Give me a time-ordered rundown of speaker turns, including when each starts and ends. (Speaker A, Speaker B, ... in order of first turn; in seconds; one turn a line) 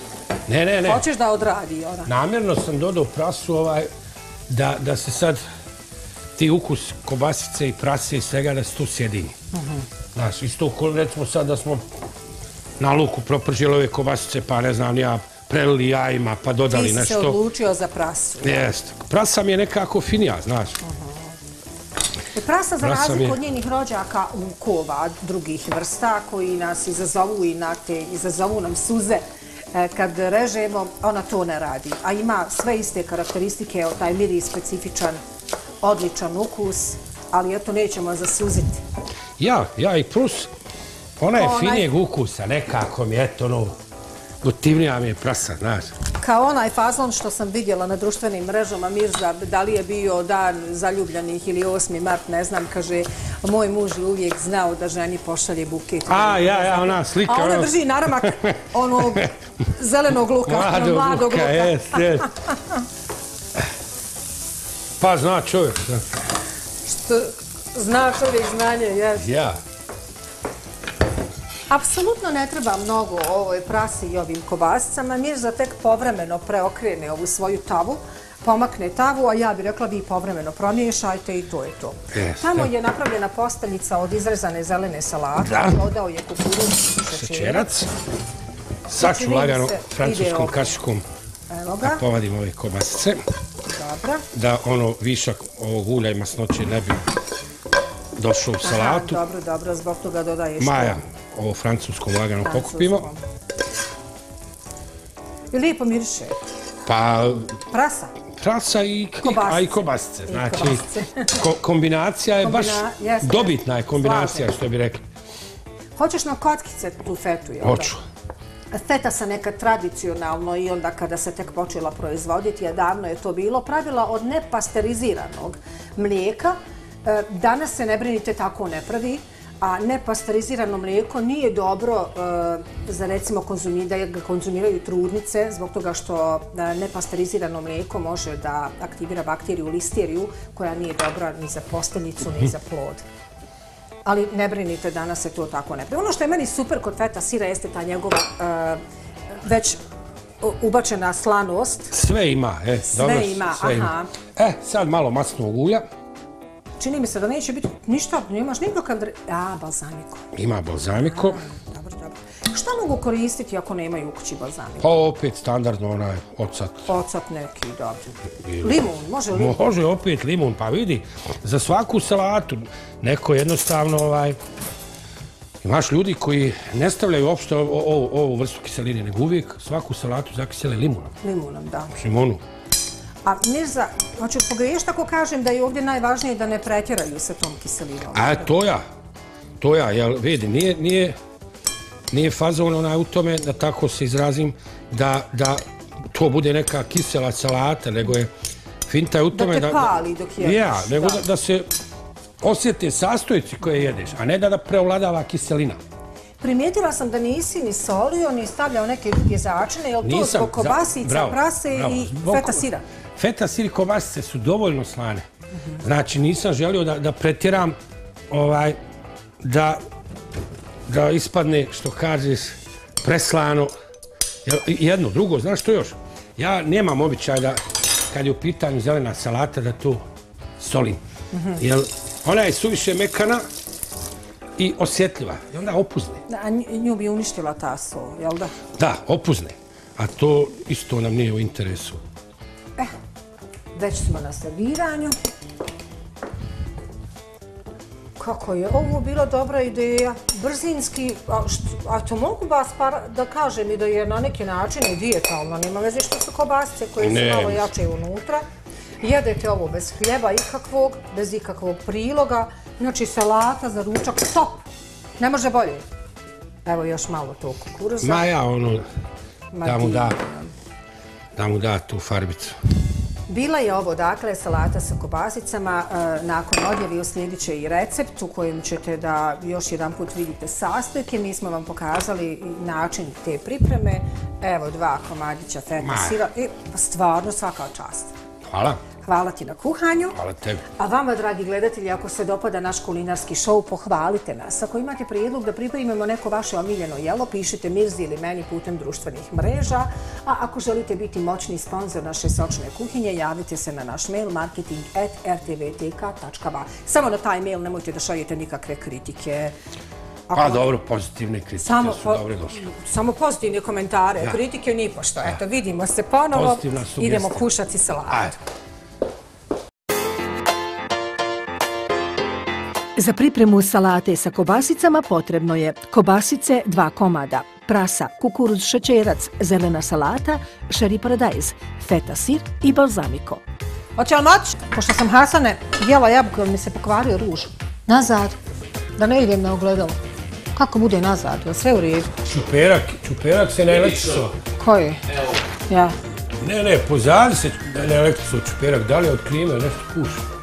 Speaker A: 0.5-1.0
Speaker B: 0.8-2.1
Speaker A: 2.1-3.9
Speaker A: 4.5-5.4
Speaker A: 6.4-9.3
Speaker B: 9.5-9.9
Speaker A: 10.2-11.8
Speaker A: 12.8-17.4
Speaker B: 16.7-18.7
Speaker A: 18.4-20.8
Speaker B: 20.8-21.3
Speaker B: 22.3-35.2
Speaker A: 22.8-23.4
Speaker B: 35.8-38.8
Speaker A: 39.4-40.5
Speaker A: 41.2-43.8
Speaker B: 41.3-41.9
Speaker A: 44.4-45.9
Speaker B: 46.2-62.3
Speaker A: 56.1-58.4
Speaker A: 60.4-62.3
Speaker A: 65.0-66.0
Speaker B: 66.8-69.3
Speaker A: 69.2-69.6
Speaker B: 71.7-87.7
Speaker A: 82.1-82.7
Speaker A: 85.4-85.8
Speaker A: 87.1-87.9
Speaker A: 88.9-91.0
Speaker B: 89.0-90.8
Speaker B: 91.5-92.0
Speaker A: 91.8-93.2
Speaker B: 93.7-94.2
Speaker A: 94.3-97.1
Speaker A: 98.1-99.2
Speaker B: 98.6-101.0
Speaker A: 100.6-103.1
Speaker B: 102.4-103.2
Speaker B: 105.5-106.4
Speaker A: 106.9-107.6
Speaker B: 107.7-108.2
Speaker A: 108.4-110.8
Speaker B: 109.2-111.4
Speaker A: 111.4-115.0
Speaker B: 112.4-114.6
Speaker B: 116.0-118.0
Speaker A: 117.6-118.0
Speaker B: 118.7-143.0
Speaker B: 144.1-148.8
Speaker B: 149.4-149.8
Speaker B: 150.4-151.9
Speaker A: 151.9-155.8
Speaker B: 152.8-154.1
Speaker B: 156.8-160.3
Speaker A: 160.3-161.4
Speaker B: 161.0-165.0
Speaker A: 164.8-166.9
Speaker B: 166.9-169.6
Speaker A: 169.3-174.4
Speaker A: 175.6-181.1
Speaker B: 181.2-182.0
Speaker A: 182.0-182.4
Speaker B: 183.2-188.5
Speaker A: 188.1-188.8
Speaker A: 189.6-191.2
Speaker A: 192.1-195.6
Speaker A: 196.1-198.3
Speaker A: 198.9-201.7
Speaker B: 199.3-201.2
Speaker A: 202.4-205.8
Speaker B: 206.4-212.8
Speaker A: 210.0-212.6
Speaker A: 213.2-215.2
Speaker A: 215.8-217.8
Speaker A: 218.3-218.8
Speaker A: 219.4-219.8
Speaker A: 220.9-223.7
Speaker A: 224.4-227.6
Speaker A: 228.1-230.0
Speaker A: 230.6-231.0
Speaker B: 231.3-231.6
Speaker A: 231.6-233.4
Speaker A: 234.6-236.2
Speaker B: 236.3-238.6
Speaker A: 238.8-242.0
Speaker B: 243.7-245.2
Speaker B: 248.2-258.4
Speaker A: 257.0-257.7
Speaker B: 259.0-264.7
Speaker B: 265.2-265.8
Speaker B: 266.7-268.3
Speaker A: 268.0-268.8
Speaker B: 269.5-270.5
Speaker A: 269.6-270.2
Speaker A: 271.4-272.6
Speaker B: 273.3-288.1
Speaker A: 285.8-286.2
Speaker A: 288.5-288.8
Speaker B: 289.0-290.2
Speaker A: 290.1-290.7
Speaker B: 290.8-309.5
Speaker B: 310.3-310.7
Speaker A: 310.3-312.6
Speaker B: 311.6-318.4
Speaker A: 316.3-317.5
Speaker A: 318.1-318.3
Speaker B: 323.0-333.4
Speaker B: 334.0-338.4
Speaker B: 339.0-340.0
Speaker B: 340.6-342.1
Speaker A: 342.2-344.4
Speaker B: 344.6-345.0
Speaker B: 345.7-345.9
Speaker A: 346.4-350.2